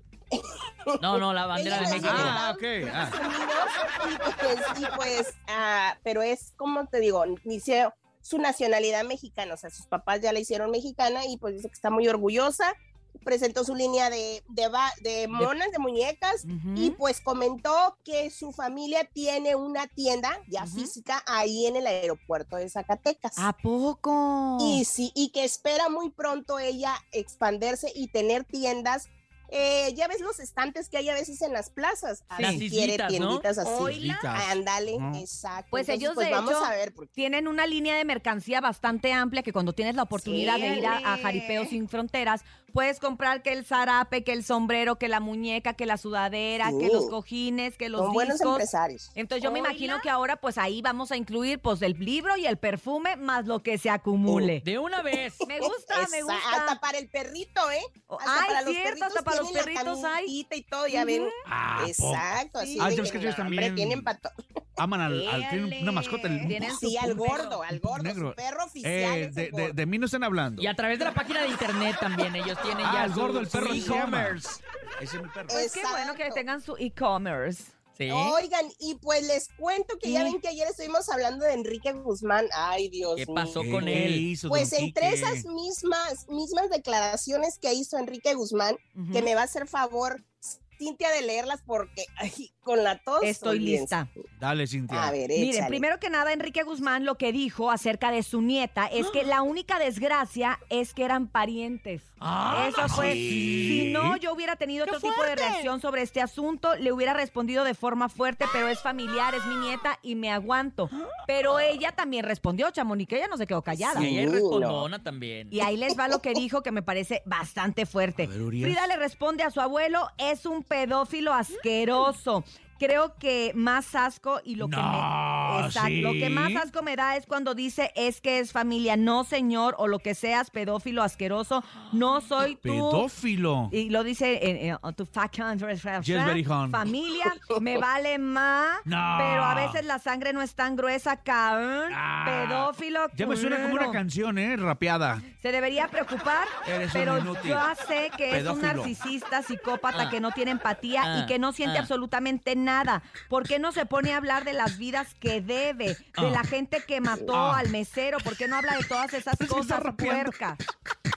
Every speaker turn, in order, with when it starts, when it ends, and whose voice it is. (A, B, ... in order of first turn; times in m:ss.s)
0:00.3-0:23.5 A
0:01.0-0:02.4 B
0:01.8-0:03.2 C
0:16.4-0:17.0 D
0:20.6-0:20.9 D
0:23.4-0:24.8 D
0:24.6-0:37.1 A
0:32.4-0:33.5 B
0:33.8-0:35.2 C
0:33.8-0:34.2 D
0:35.7-0:54.6 D
0:40.2-0:41.8 A
0:40.4-0:40.8 B
0:46.6-0:47.1 A
0:48.0-0:50.1 A
0:54.6-0:55.5 B
0:55.5-0:56.8 D
0:55.6-1:04.3 A
0:58.1-1:00.3 D
1:00.9-1:01.3 D
1:01.5-1:04.1 C
1:02.6-1:03.0 D
1:04.8-1:10.7 C
1:05.5-1:05.9 A
1:06.4-1:07.2 D
1:06.6-1:09.8 A
1:07.1-1:07.6 B
1:10.6-1:14.4 B
1:12.8-1:15.6 C
1:13.6-1:14.0 A
1:15.5-1:16.4 A
1:15.5-1:17.7 D
1:18.0-1:18.4 B
1:18.1-1:34.0 A
1:20.0-1:20.4 D
1:23.1-1:24.3 B
1:23.6-1:25.5 C
1:29.0-1:29.3 D
1:33.2-1:34.1 D
1:34.4-1:35.2 C
1:34.9-1:35.8 A
1:35.4-1:54.1 D
1:42.2-1:44.2 C
1:42.4-1:43.5 B
1:45.0-1:45.3 B
1:53.7-1:54.9 A
1:53.9-1:55.6 B
1:55.5-2:13.1 D
1:58.2-1:58.8 C
2:04.6-2:06.7 C
2:12.6-2:13.8 C
2:13.7-2:24.0 D
2:16.0-2:16.9 C
2:18.8-2:19.8 C
2:21.9-2:25.2 C
2:25.4-2:40.6 D
2:26.6-2:27.7 C
2:28.3-2:29.0 C
2:31.0-2:31.9 B
2:36.2-2:36.4 B
2:37.3-2:37.7 C
2:39.4-2:40.4 C